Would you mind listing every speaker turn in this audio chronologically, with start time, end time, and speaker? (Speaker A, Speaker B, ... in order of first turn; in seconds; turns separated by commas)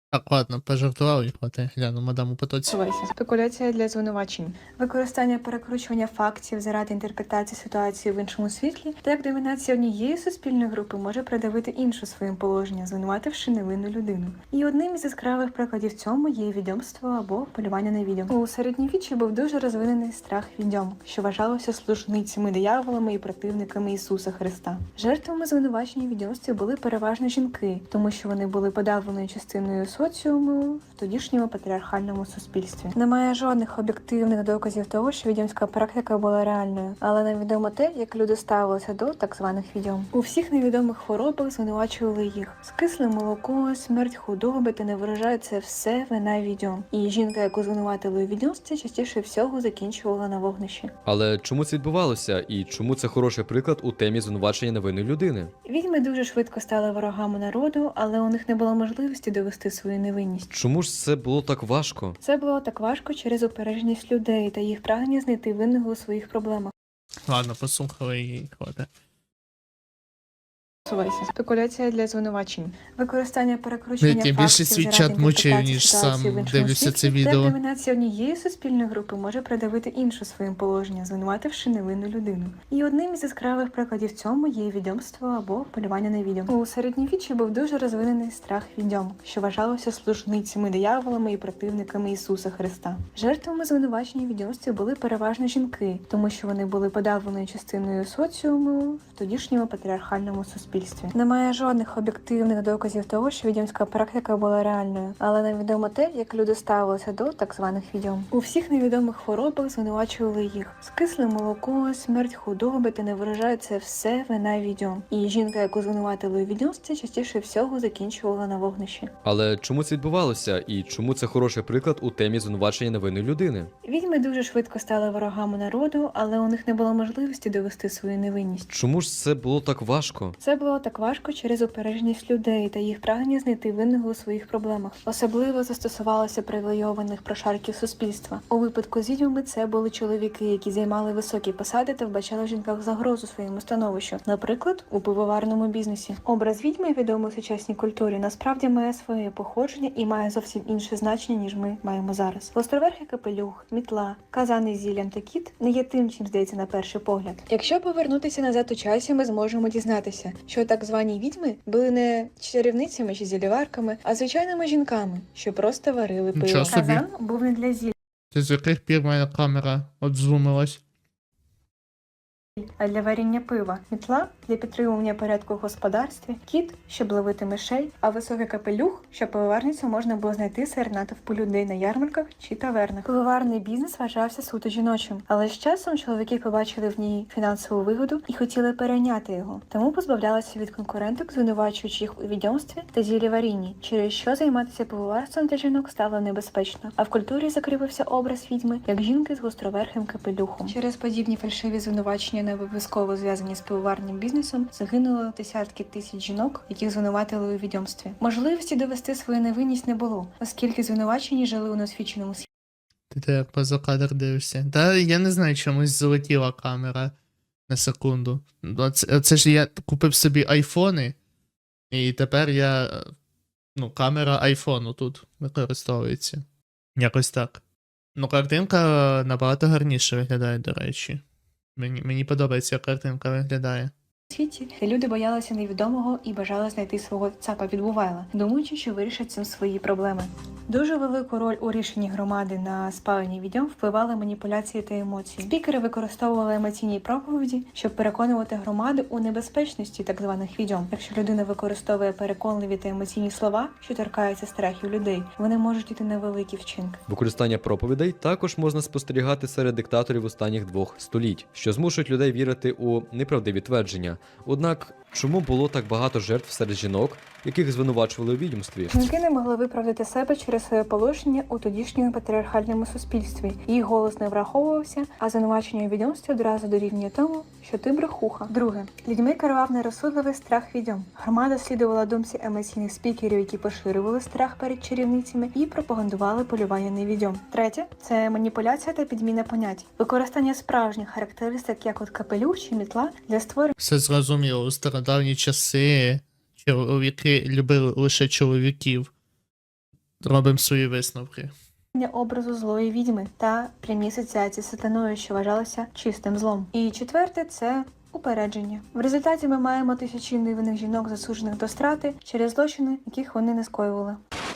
Speaker A: 0.1-2.8, Speaker B: 2.7-50.9, Speaker C: 51.0-55.5, Speaker B: 55.6-60.5, Speaker C: 60.5-62.2, Speaker B: 62.2-66.7, Speaker A: 67.3-68.9, Speaker B: 70.9-119.1, Speaker A: 74.0-77.5, Speaker C: 119.2-123.7, Speaker B: 123.8-128.7, Speaker C: 128.7-130.3, Speaker B: 130.4-167.9, Speaker A: 166.3-167.0, Speaker A: 168.3-170.8, Speaker B: 172.6-212.5, Speaker A: 213.1-217.1, Speaker A: 217.7-221.2, Speaker A: 221.9-223.1, Speaker A: 223.8-226.4, Speaker A: 227.0-227.6, Speaker A: 228.2-231.2, Speaker A: 231.8-233.9, Speaker B: 234.3-257.0, Speaker C: 257.1-268.9, Speaker B: 268.9-293.7, Speaker A: 293.8-299.1, Speaker A: 300.2-301.5, Speaker B: 301.9-314.2